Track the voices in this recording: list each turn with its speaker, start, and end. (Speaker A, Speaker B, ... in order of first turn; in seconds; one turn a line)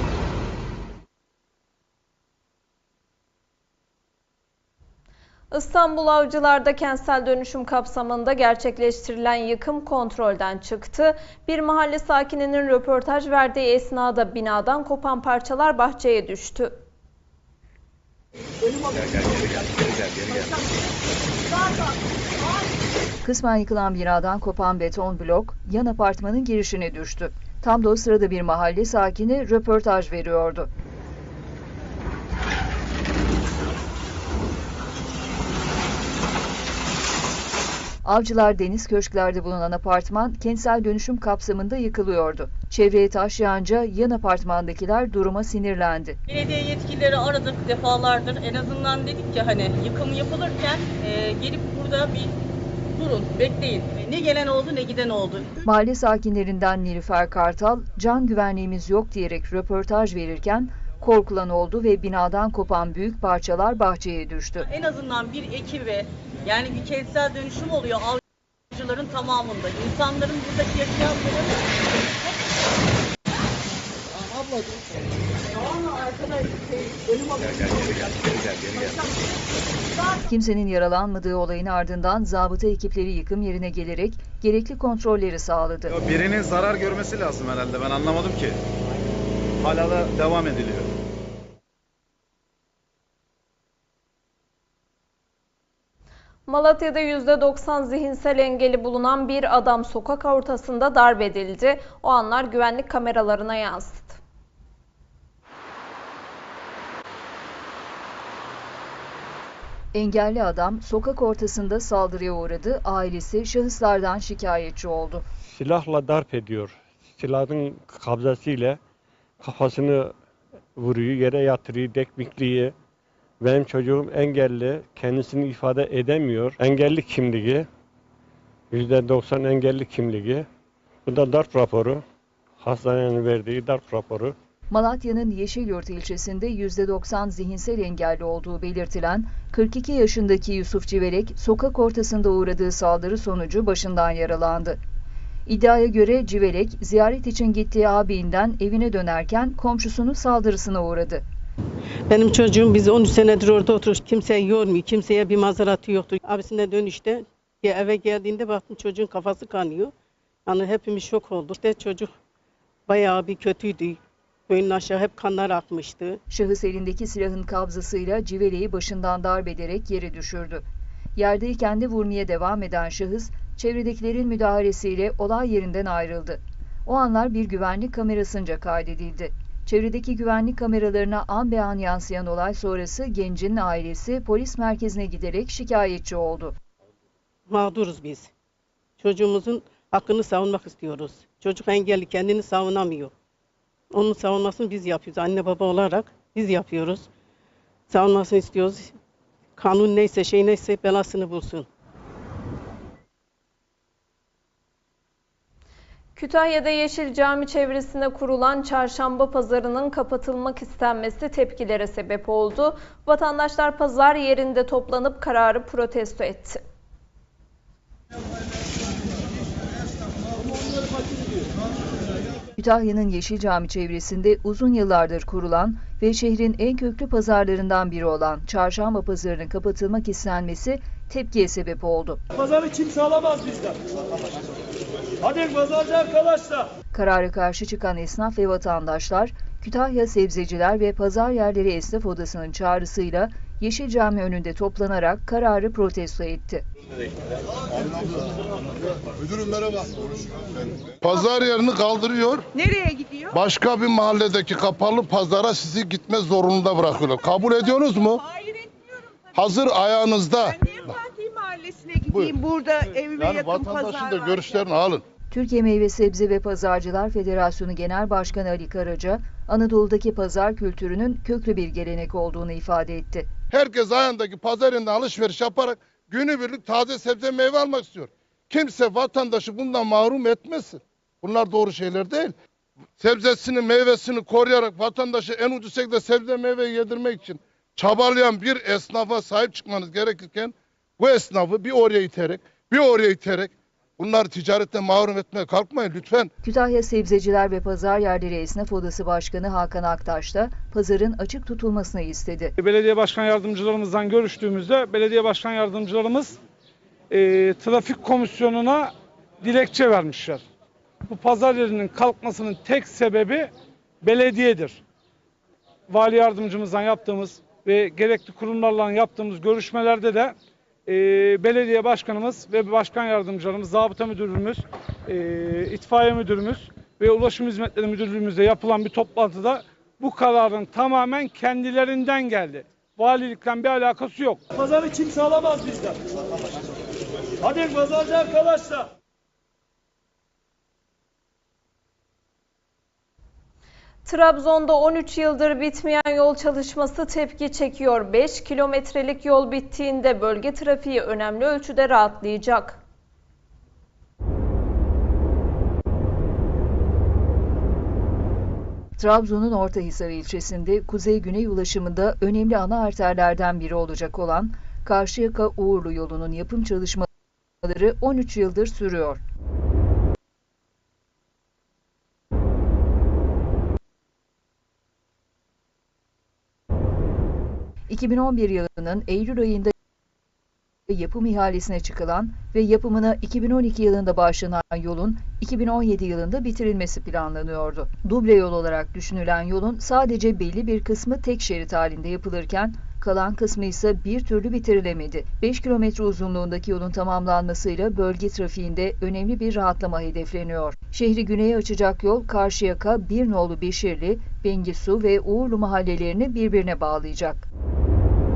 Speaker A: 5.5-16.8
Speaker B: 19.2-20.2
Speaker C: 23.2-30.7
Speaker C: 38.0-46.2
Speaker D: 46.3-52.3
Speaker D: 53.0-55.5
Speaker C: 55.6-64.7
Speaker D: 64.6-68.2
Speaker D: 68.7-71.6
Speaker B: 77.5-79.0
Speaker C: 80.3-86.0
Speaker B: 85.9-88.6
Speaker B: 89.6-90.9
Speaker A: 96.5-104.2
Speaker C: 109.9-115.2
Speaker E: 115.5-118.8
Speaker E: 119.4-120.1
Speaker E: 120.8-122.8
Speaker E: 123.4-127.7
Speaker E: 128.7-130.5
Speaker E: 131.1-132.0
Speaker E: 132.6-134.3
Speaker C: 134.7-144.8
Speaker C: 145.5-151.2
Speaker F: 152.1-159.9
Speaker F: 160.5-162.1
Speaker F: 162.9-166.2
Speaker C: 166.3-170.7
Speaker C: 171.2-186.6
Speaker F: 187.5-188.3
Speaker F: 189.0-193.1
Speaker F: 193.9-197.1
Speaker F: 197.9-199.0
Speaker F: 199.6-201.7
Speaker A: 206.2-216.6
Speaker C: 222.6-232.2
Speaker C: 236.9-246.6
Speaker G: 249.2-249.9
Speaker G: 251.0-252.5
Speaker H: 252.6-253.3
Speaker G: 253.3-258.2
Speaker G: 259.4-260.5
Speaker H: 260.6-264.5
Speaker G: 263.2-265.0
Speaker C: 265.3-273.3
Speaker G: 273.5-282.3
Speaker G: 283.0-296.3
Speaker C: 296.4-302.5
Speaker I: 302.6-306.4
Speaker I: 307.1-310.4
Speaker I: 311.1-313.5
Speaker I: 314.0-314.8
Speaker I: 315.9-320.4
Speaker I: 320.9-334.4
Speaker I: 337.8-338.4
Speaker A: 344.1-352.8
Speaker C: 359.0-367.1
Speaker C: 367.6-369.2
Speaker C: 377.9-379.7
Speaker C: 380.9-407.5